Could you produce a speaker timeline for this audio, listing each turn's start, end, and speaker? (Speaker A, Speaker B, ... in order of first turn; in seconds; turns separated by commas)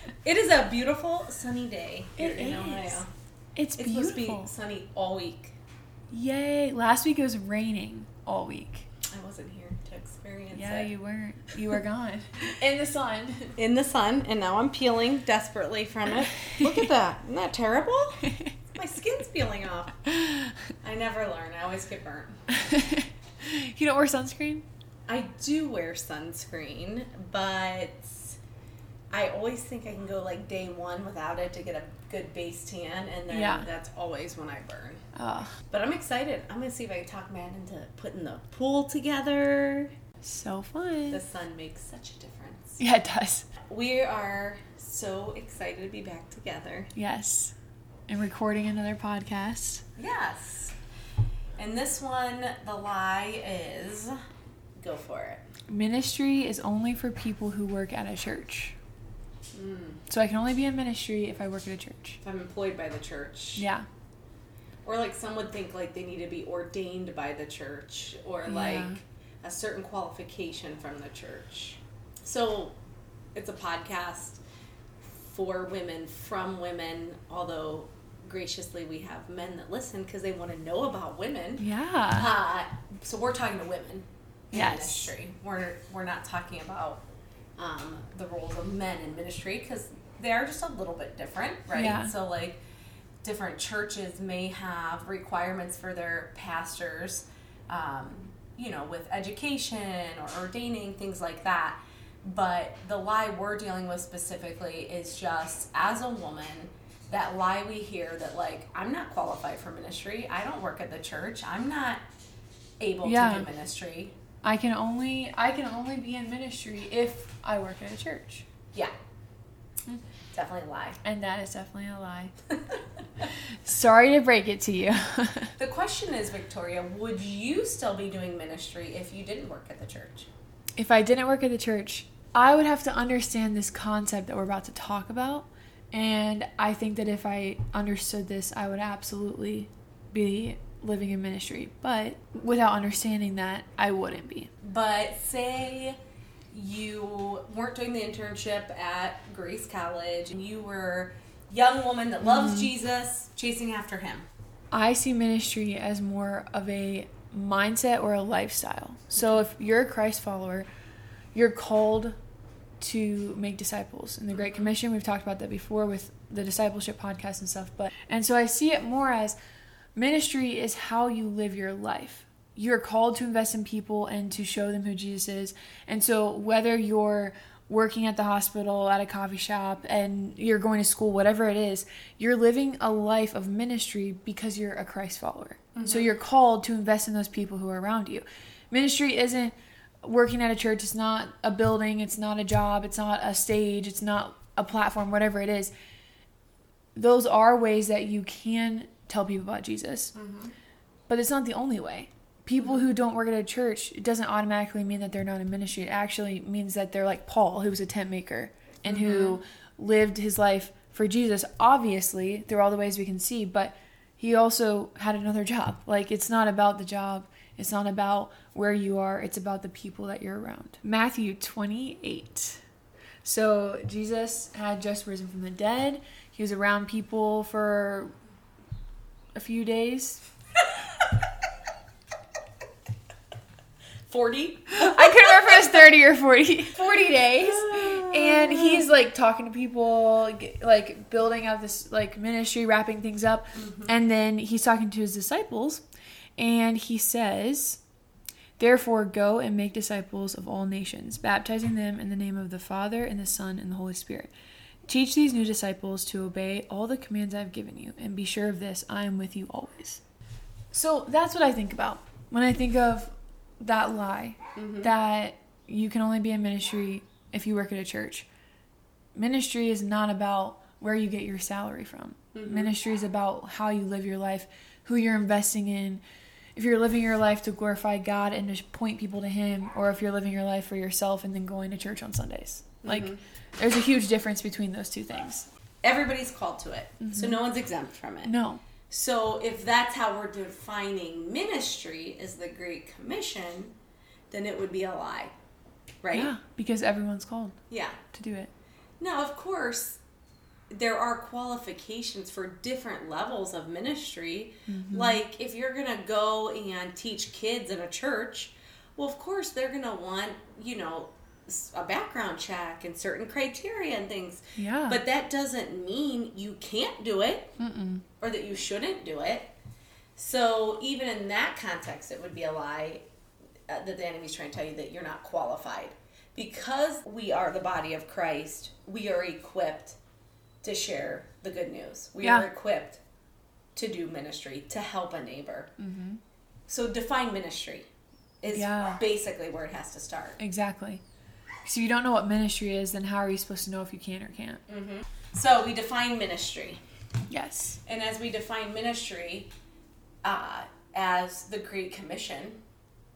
Speaker A: 0.2-3.1, Speaker B: 2.2-3.0, Speaker B: 3.5-4.5, Speaker A: 3.8-5.5, Speaker B: 6.1-8.9, Speaker A: 9.1-10.9, Speaker B: 10.5-13.5, Speaker A: 13.6-18.2, Speaker A: 18.7-20.0, Speaker B: 20.1-20.5, Speaker A: 20.8-22.4, Speaker B: 22.6-24.6, Speaker A: 25.1-28.4, Speaker A: 29.1-35.0, Speaker B: 33.3-33.7, Speaker B: 35.1-35.5, Speaker A: 35.7-39.9, Speaker B: 40.2-41.2, Speaker A: 41.1-42.8, Speaker B: 42.8-43.5, Speaker A: 43.7-46.9, Speaker B: 46.9-47.5, Speaker B: 48.1-49.8, Speaker A: 50.0-50.7, Speaker A: 51.6-54.1, Speaker A: 54.8-55.4, Speaker B: 55.7-58.8, Speaker A: 59.5-60.0, Speaker B: 60.1-62.2, Speaker A: 62.2-63.6, Speaker B: 63.5-63.9, Speaker A: 64.8-72.8, Speaker B: 68.5-69.0, Speaker A: 73.3-74.4, Speaker A: 75.2-87.0, Speaker B: 81.6-82.3, Speaker B: 84.5-85.1, Speaker A: 87.6-92.6, Speaker B: 91.7-92.1, Speaker A: 93.2-112.0, Speaker A: 112.8-114.1, Speaker B: 113.0-113.5, Speaker B: 114.4-118.5, Speaker A: 120.3-121.0, Speaker B: 121.0-122.3, Speaker B: 123.2-125.5, Speaker A: 125.6-130.3, Speaker B: 130.8-144.5, Speaker A: 144.6-146.0, Speaker A: 146.5-154.3, Speaker B: 152.2-152.7, Speaker B: 154.7-160.7, Speaker B: 161.3-162.2, Speaker B: 162.8-169.3, Speaker A: 164.3-164.7, Speaker B: 169.9-195.7, Speaker A: 185.8-186.1, Speaker B: 196.9-200.1, Speaker A: 200.1-200.5, Speaker B: 201.1-222.6, Speaker A: 202.6-202.8, Speaker A: 208.8-209.4, Speaker B: 223.2-228.1, Speaker B: 229.3-230.2, Speaker A: 234.1-235.6, Speaker B: 234.7-245.8, Speaker A: 236.8-238.8, Speaker A: 243.5-243.9, Speaker B: 246.4-247.8, Speaker B: 248.6-254.3, Speaker B: 254.9-260.0, Speaker B: 260.7-268.3, Speaker A: 264.6-264.9, Speaker B: 269.1-276.0, Speaker A: 272.3-272.7, Speaker B: 276.6-285.5, Speaker A: 282.8-283.2, Speaker A: 285.8-288.3, Speaker B: 287.0-287.4, Speaker B: 288.2-288.6, Speaker A: 288.9-293.7, Speaker A: 294.3-295.3, Speaker A: 296.0-296.3, Speaker B: 296.1-297.6, Speaker A: 297.7-298.0, Speaker B: 298.1-298.5, Speaker A: 299.0-300.0, Speaker A: 300.7-317.5, Speaker B: 304.7-305.2, Speaker B: 314.6-315.0, Speaker B: 317.6-318.0, Speaker A: 318.2-319.5, Speaker A: 320.1-323.0, Speaker A: 323.7-330.0, Speaker A: 330.6-333.0, Speaker B: 332.2-332.5, Speaker A: 333.7-335.7, Speaker B: 335.8-336.2, Speaker A: 336.7-337.9, Speaker A: 338.4-340.4, Speaker B: 338.5-339.0, Speaker B: 340.4-341.0, Speaker B: 341.6-344.6, Speaker A: 344.7-346.8, Speaker B: 347.3-347.8, Speaker A: 347.8-349.5, Speaker A: 350.2-352.6